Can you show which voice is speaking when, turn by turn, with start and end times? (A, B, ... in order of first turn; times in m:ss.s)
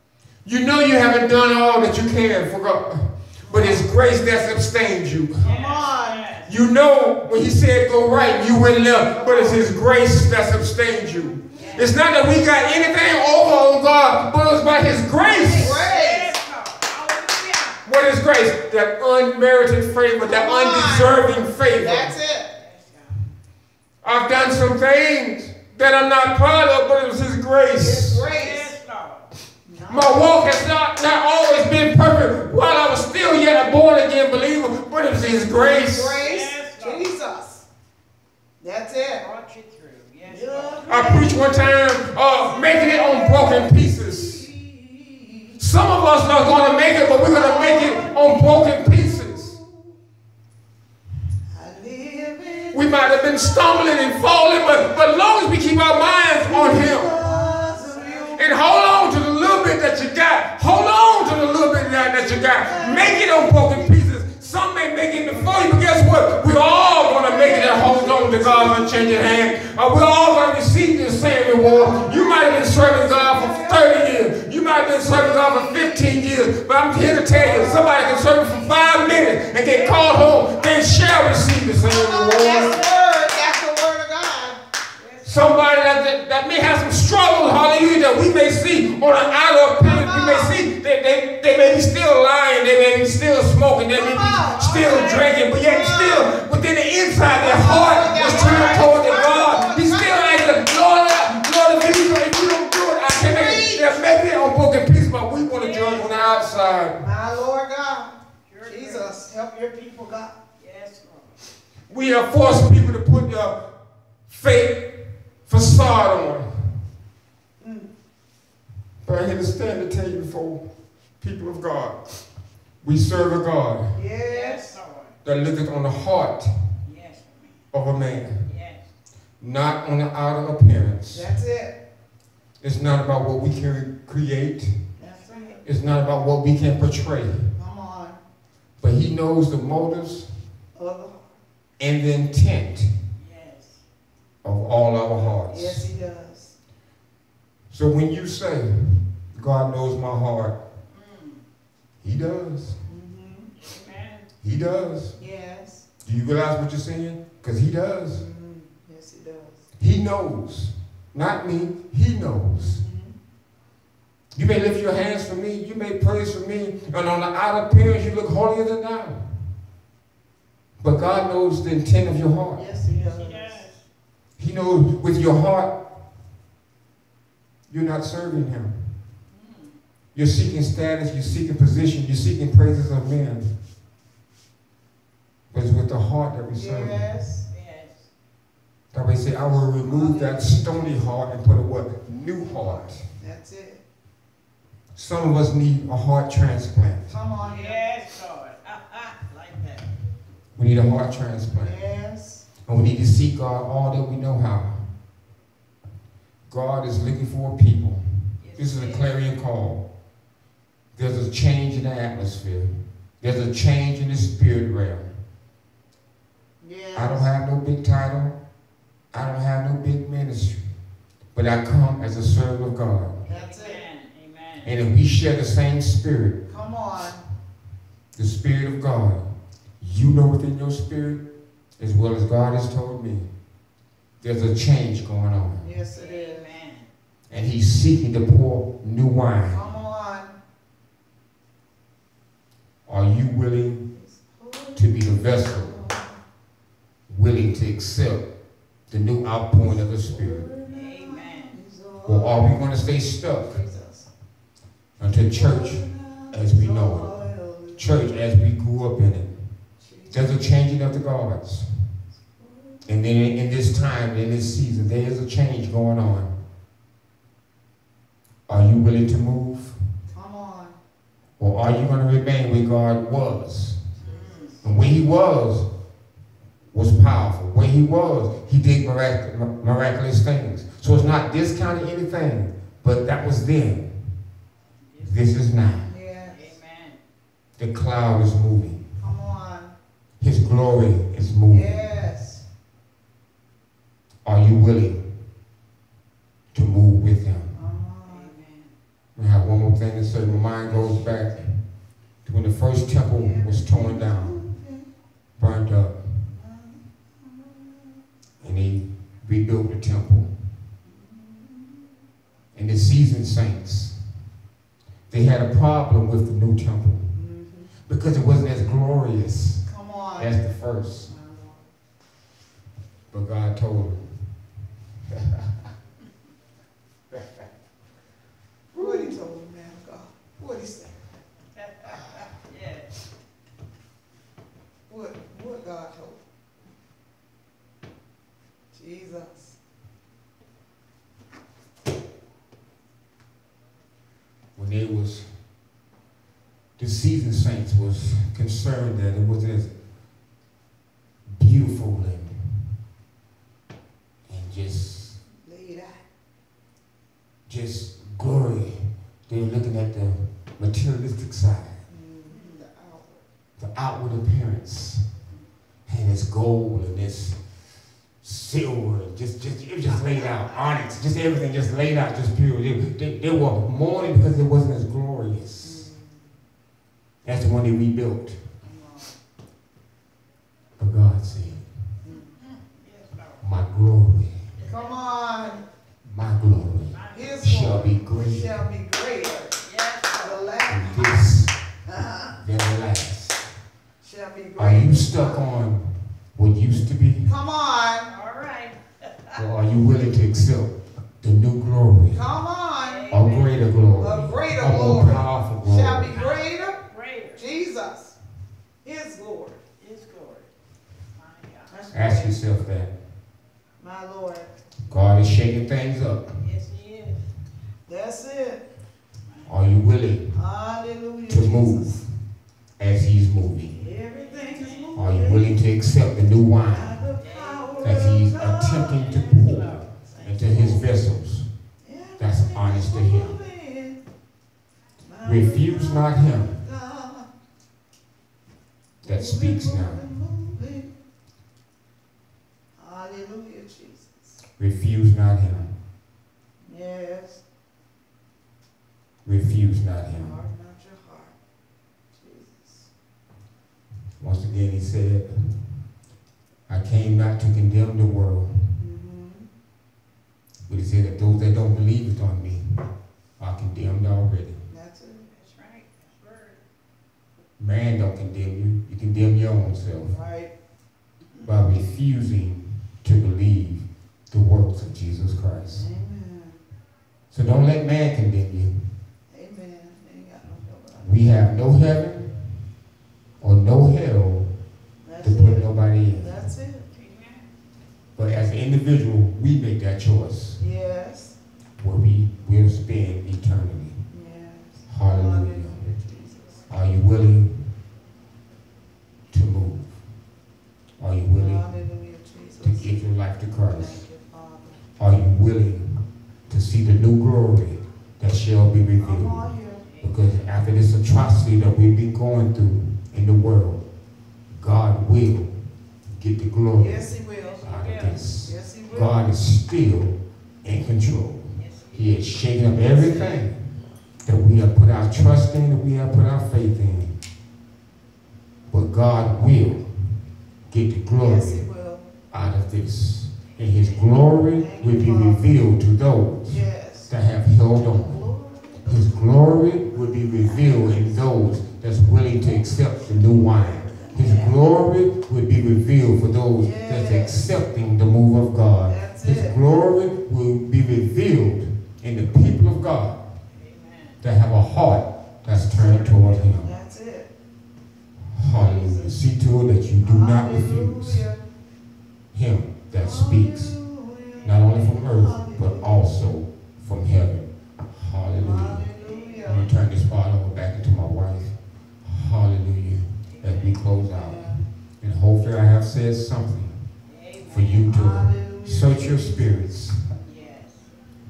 0:00.4-0:05.4 A
0:03.4-0:03.8 B
0:05.4-0:06.5 C
0:05.4-0:06.2 B
0:06.5-0:15.8 A
0:08.8-0:09.6 B
0:11.5-0:11.8 B
0:11.6-0:11.9 C
0:15.2-0:17.8 C
0:15.5-0:16.3 B
0:17.8-0:22.1 A
0:20.1-0:21.2 B
0:21.8-0:22.5 B
0:22.6-0:23.2 C
0:24.0-0:28.3 A
0:27.8-0:28.7 B
0:28.3-0:29.3 C
0:29.7-0:30.3 B
0:29.9-0:36.2 A
0:35.8-0:37.6 B
0:36.2-0:37.1 C
0:38.6-0:39.2 B
0:39.2-0:40.9 C
0:40.2-0:41.6 B
0:40.9-0:44.4 A
0:42.4-0:45.6 B
0:45.6-0:49.5 A
0:46.9-0:50.0 B
0:47.2-0:48.6 C
0:51.5-0:53.9 B
0:52.7-0:57.2 A
0:56.4-0:58.5 B
0:57.4-0:58.3 C
0:58.4-1:22.8 A
1:02.4-1:03.6 B
1:07.0-1:09.2 B
1:11.5-1:14.0 B
1:15.0-1:16.1 B
1:17.3-1:18.8 B
1:17.7-1:21.5 C
1:21.8-1:24.6 B
1:22.4-1:23.5 C
1:25.0-1:25.6 C
1:25.2-1:47.0 A
1:29.8-1:30.6 B
1:33.9-1:36.3 B
1:37.3-1:40.5 B
1:38.1-1:39.0 C
1:43.2-1:44.0 B
1:45.5-1:46.6 C
1:47.0-1:48.1 B
1:48.5-1:49.1 C
1:48.6-1:50.4 B
1:50.6-1:51.4 C
1:51.9-1:53.6 A
1:54.3-1:56.5 A
1:57.6-1:57.9 B
1:59.0-2:00.7 A
2:01.2-2:02.2 A
2:02.8-2:03.9 A
2:03.9-2:04.8 B
2:04.2-2:05.1 C
2:05.2-2:06.5 A
2:06.8-2:07.6 C
2:07.7-2:08.4 A
2:08.4-2:08.8 C
2:09.4-2:11.3 A
2:11.1-2:11.8 B
2:12.6-2:14.8 A
2:15.0-2:15.6 B
2:15.0-2:15.6 C
2:15.6-2:17.5 A
2:17.5-2:18.2 B
2:18.8-2:20.3 A
2:20.7-2:21.4 B
2:21.8-2:22.9 A
2:23.2-2:23.8 C
2:24.4-2:25.9 A
2:25.5-2:26.5 B
2:27.7-2:30.6 A
2:30.9-2:31.4 C
2:32.0-2:32.8 A
2:32.8-2:33.5 B
2:33.6-2:34.3 C
2:34.4-2:35.2 A
2:35.2-2:35.8 B
2:36.0-2:38.2 A
2:38.1-2:39.6 B
2:39.8-2:42.8 A
2:42.6-2:43.1 B
2:44.3-2:49.2 A
2:50.8-2:52.6 A
2:52.5-2:53.6 B
2:52.9-2:53.8 C
2:54.4-2:55.8 A
2:57.7-2:58.7 A
2:59.3-2:59.8 C
3:00.1-3:03.5 A
3:05.5-3:07.0 A
3:06.5-3:07.5 B
3:07.5-3:08.0 C
3:08.9-3:13.0 A
3:09.8-3:11.0 B
3:12.2-3:13.8 B
3:14.9-3:17.1 A
3:17.1-3:17.9 B
3:17.4-3:19.9 C
3:20.6-3:21.8 A
3:21.6-3:22.5 B
3:22.6-3:24.8 A
3:26.5-3:28.0 A
3:28.4-3:29.1 C
3:28.5-3:29.8 A
3:31.0-3:35.1 A
3:36.6-3:37.3 B
3:36.9-3:38.4 A
3:39.1-3:40.6 A
3:41.3-3:43.2 A
3:43.2-3:43.8 B
3:43.4-3:44.7 C
3:44.6-3:46.4 A
3:46.5-3:47.2 B
3:48.2-3:49.2 A
3:49.8-3:51.2 A
3:51.8-3:53.3 A
3:54.2-3:55.6 A
3:55.6-3:56.5 B
3:55.9-3:56.9 C
3:57.3-3:59.6 A
3:59.5-4:00.4 B
4:02.9-4:03.8 A
4:03.9-4:06.2 B
4:04.8-4:05.8 A
4:07.1-4:08.2 A
4:08.9-4:10.5 A
4:10.0-4:12.6 B
4:10.7-4:11.5 C
4:12.0-4:13.5 A
4:13.4-4:14.1 B
4:15.0-4:17.1 A
4:15.3-4:18.2 B
4:17.8-4:19.3 A
4:19.8-4:20.4 B
4:20.1-4:21.7 A
4:22.3-4:22.8 B
4:22.8-4:26.3 A
4:28.5-4:29.8 A
4:30.1-4:30.8 B
4:31.4-4:33.8 A
4:34.0-4:34.5 C
4:34.0-4:34.7 B
4:34.6-4:35.7 A
4:36.7-4:43.9 A
4:45.0-4:45.9 A
4:45.8-4:46.4 B
4:46.3-4:47.0 C
4:47.6-4:48.8 A
4:49.0-4:49.7 B
4:50.2-4:51.8 A
4:51.5-4:52.4 B
4:54.2-4:55.0 A
4:56.5-4:57.5 A
4:57.5-4:58.3 B
4:58.0-4:58.7 C
4:59.2-5:01.6 A
5:00.6-5:01.3 B
5:02.2-5:04.4 A
5:03.2-5:04.9 B
5:05.4-5:06.0 A
5:06.3-5:07.9 B
5:08.4-5:10.3 A
5:10.8-5:11.9 B
5:12.5-5:14.0 A
5:15.1-5:17.1 A
5:17.1-5:17.7 B
5:17.9-5:19.6 A
5:19.7-5:20.4 B
5:20.2-5:21.1 A
5:21.0-5:21.7 B
5:23.1-5:24.1 A
5:25.1-5:25.5 A
5:27.1-5:27.4 A
5:28.7-5:30.9 B
5:28.8-5:29.1 A
5:31.6-5:32.9 C
5:34.9-5:36.2 B
5:38.7-5:39.6 B
5:44.6-5:45.3 A
5:46.8-5:49.7 A
5:51.4-5:52.6 A
5:54.3-5:55.2 A
5:55.4-5:56.0 B
5:57.5-6:01.8 A
6:01.9-6:03.2 B
6:02.3-6:02.6 C
6:03.6-6:05.0 A
6:05.9-6:07.4 A
6:08.2-6:15.9 A
6:15.6-6:16.2 B
6:17.2-6:18.4 A
6:18.6-6:19.1 B
6:20.8-6:21.6 A
6:22.0-6:22.3 B
6:22.6-6:23.4 C
6:23.4-6:24.4 A
6:24.6-6:25.0 C
6:24.6-6:25.6 B
6:26.0-6:28.6 A
6:26.9-6:27.4 C
6:27.1-6:31.3 B
6:29.6-6:30.5 C
6:30.7-6:31.5 A
6:31.9-6:32.4 B
6:32.4-6:33.5 A
6:34.0-6:35.4 B
6:34.6-6:37.3 A
6:37.2-6:38.1 B
6:38.1-6:39.4 C
6:39.4-6:42.2 A
6:42.1-6:43.0 B
6:42.8-6:43.6 C
6:43.1-6:46.1 A
6:44.0-6:46.8 B
6:46.1-6:47.4 C
6:47.3-6:48.1 B
6:48.8-6:49.6 B
6:49.8-6:50.5 C
6:51.2-6:51.7 C
6:51.7-6:52.4 B
6:51.9-6:52.9 A
6:53.8-6:54.5 B
6:54.9-6:56.3 A
6:56.4-6:57.2 C
6:57.9-6:58.6 B
6:59.4-7:00.3 A
7:00.3-7:02.0 B
7:01.3-7:02.0 A
7:02.8-7:03.8 A
7:03.7-7:05.5 B
7:04.1-7:04.9 C
7:05.0-7:07.0 A
7:06.7-7:09.0 B
7:07.2-7:08.2 C
7:07.8-7:11.5 A
7:08.8-7:09.9 C
7:10.0-7:10.9 B
7:11.8-7:14.0 B
7:12.2-7:13.4 A
7:15.1-7:17.3 B
7:15.2-7:16.5 A
7:19.0-7:20.9 B
7:19.0-7:20.0 A
7:22.8-7:24.4 B
7:24.6-7:25.7 A
7:26.6-7:27.4 B
7:29.2-7:30.4 A
7:30.1-7:31.3 B
7:32.1-7:32.9 B
7:34.2-7:35.3 A
7:36.7-7:38.6 A
7:38.8-7:39.5 B
7:40.7-7:42.9 A
7:43.4-7:44.6 A
7:44.7-7:45.2 B
7:45.3-7:46.6 C
7:47.6-7:50.1 A
7:50.1-7:50.5 B
7:51.4-7:55.9 A
7:55.7-7:56.6 B
7:57.3-7:58.7 A
7:59.3-8:01.2 B
8:01.0-8:02.3 A
8:03.4-8:04.5 A
8:05.0-8:06.8 B
8:05.2-8:06.4 A
8:06.9-8:07.4 C
8:08.2-8:10.6 A
8:10.6-8:11.4 B
8:11.8-8:14.0 A
8:14.1-8:16.6 B
8:14.9-8:15.8 A
8:16.7-8:17.6 A
8:19.3-8:19.9 A
8:21.0-8:21.7 A
8:21.3-8:22.9 B
8:22.6-8:24.0 A
8:23.7-8:24.8 B
8:25.0-8:29.5 A
8:29.0-8:29.8 B
8:29.8-8:30.5 C
8:30.0-8:33.8 A
8:34.5-8:35.5 A
8:36.1-8:37.0 A
8:36.7-8:37.6 B
8:37.4-8:38.2 C
8:37.6-8:43.6 A
8:38.4-8:39.1 B
8:41.6-8:42.2 C
8:42.8-8:43.5 B
8:44.2-8:47.2 A
8:48.7-8:49.8 A
8:50.7-8:51.6 A
8:51.2-8:52.1 B
8:52.3-8:58.2 A
8:53.5-8:54.2 C
8:54.5-8:55.5 B
8:56.5-8:57.1 B
8:57.8-8:59.0 B
8:58.8-9:13.2 A
8:59.6-9:01.2 B
9:03.6-9:04.5 B
9:06.6-9:07.4 B
9:08.9-9:09.6 B
9:13.5-9:14.2 C
9:14.2-9:16.7 A
9:15.7-9:16.6 C
9:16.6-9:17.3 B
9:18.3-9:21.2 A
9:18.6-9:19.2 B
9:20.0-9:21.4 B
9:22.3-9:23.7 A
9:23.0-9:26.0 B
9:24.4-9:28.8 A
9:24.5-9:24.8 C
9:28.4-9:29.7 B
9:29.0-9:29.8 C
9:29.4-9:36.8 A
9:33.3-9:33.8 C
9:34.1-9:34.6 B
9:37.1-9:37.9 C
9:37.5-9:40.1 A
9:37.8-9:39.6 B
9:40.2-9:40.8 C